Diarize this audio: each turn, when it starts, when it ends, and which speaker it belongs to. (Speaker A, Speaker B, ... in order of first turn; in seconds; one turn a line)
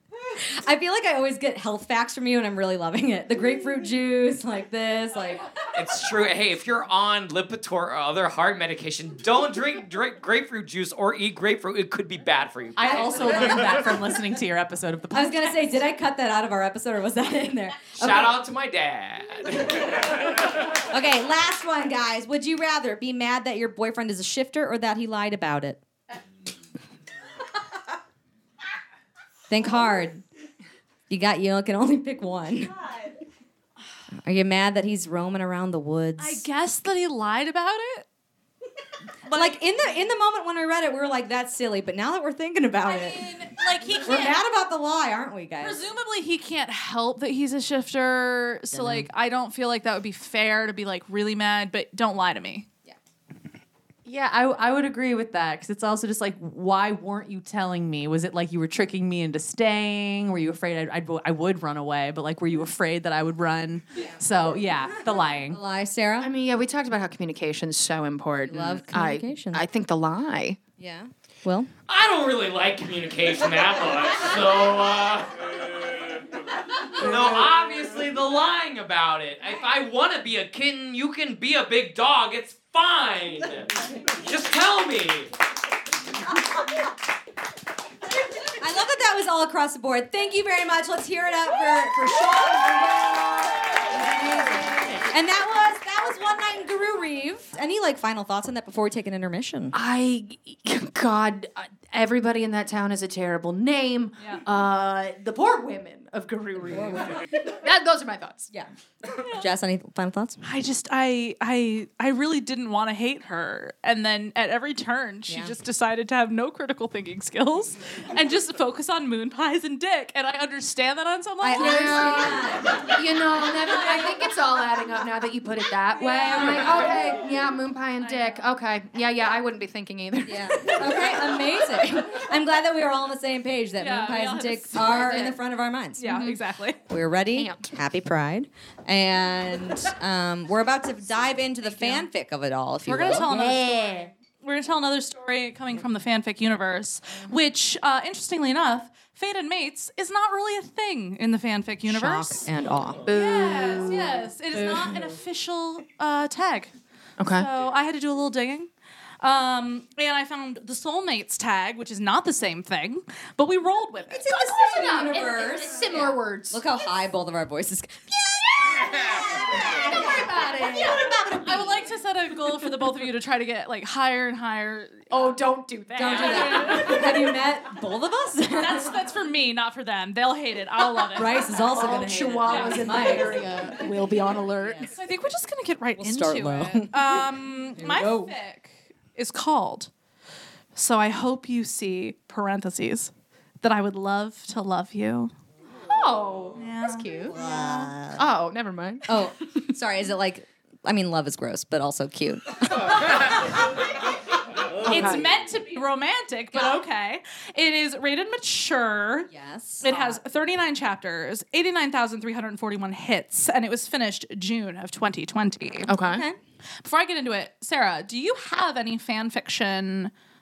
Speaker A: 0.3-5.5
Speaker B: 5.7-13.1
Speaker C: 12.8-15.6
Speaker A: 12.9-13.9
Speaker A: 15.1-18.4
Speaker B: 18.0-20.2
Speaker A: 20.8-25.8
Speaker A: 29.5-30.2
Speaker A: 31.1-32.9
Speaker A: 34.1-36.5
Speaker D: 36.2-38.1
Speaker D: 39.3-39.6
Speaker A: 39.3-43.3
Speaker D: 42.9-44.4
Speaker A: 44.0-45.8
Speaker D: 45.6-52.7
Speaker A: 48.7-49.1
Speaker C: 54.0-65.6
Speaker A: 65.5-66.3
Speaker E: 66.2-70.6
Speaker A: 68.5-69.6
Speaker A: 70.8-71.7
Speaker B: 71.9-75.4
Speaker B: 76.9-85.3
Speaker A: 88.4-99.8
Speaker E: 99.7-108.5
Speaker A: 106.7-107.1
Speaker D: 109.1-109.5
Speaker A: 109.3-110.4
Speaker D: 110.4-122.5
Speaker A: 115.3-115.5
Speaker A: 121.4-122.9
Speaker E: 121.6-131.1
Speaker D: 126.0-127.0
Speaker D: 128.0-128.4
Speaker A: 130.3-136.1
Speaker D: 133.8-135.3
Speaker E: 134.8-135.3
Speaker D: 136.0-136.8
Speaker E: 136.0-136.4
Speaker A: 136.9-143.6
Speaker E: 137.3-137.7
Speaker D: 141.7-142.0
Speaker D: 142.9-152.5
Speaker E: 143.1-144.1
Speaker A: 151.9-153.1
Speaker E: 153.1-154.1
Speaker D: 153.1-158.7
Speaker E: 157.2-157.5
Speaker D: 159.2-164.9
Speaker A: 164.1-171.8
Speaker E: 164.5-166.6
Speaker E: 169.5-171.1
Speaker D: 171.3-175.1
Speaker E: 175.1-177.0
Speaker A: 175.9-179.0
Speaker D: 176.0-177.1
Speaker D: 178.6-183.2
Speaker A: 181.1-183.4
Speaker E: 181.7-184.9
Speaker D: 184.8-189.9
Speaker A: 186.0-188.3
Speaker D: 190.8-193.1
Speaker D: 193.6-195.3
Speaker E: 195.9-197.4
Speaker D: 196.6-197.1
Speaker A: 196.9-198.2
Speaker E: 198.2-199.1
Speaker A: 199.1-203.6
Speaker D: 204.8-209.3
Speaker E: 204.8-205.2
Speaker A: 209.3-210.2
Speaker D: 209.8-215.9
Speaker E: 215.9-216.2
Speaker A: 216.0-216.4
Speaker D: 216.8-220.1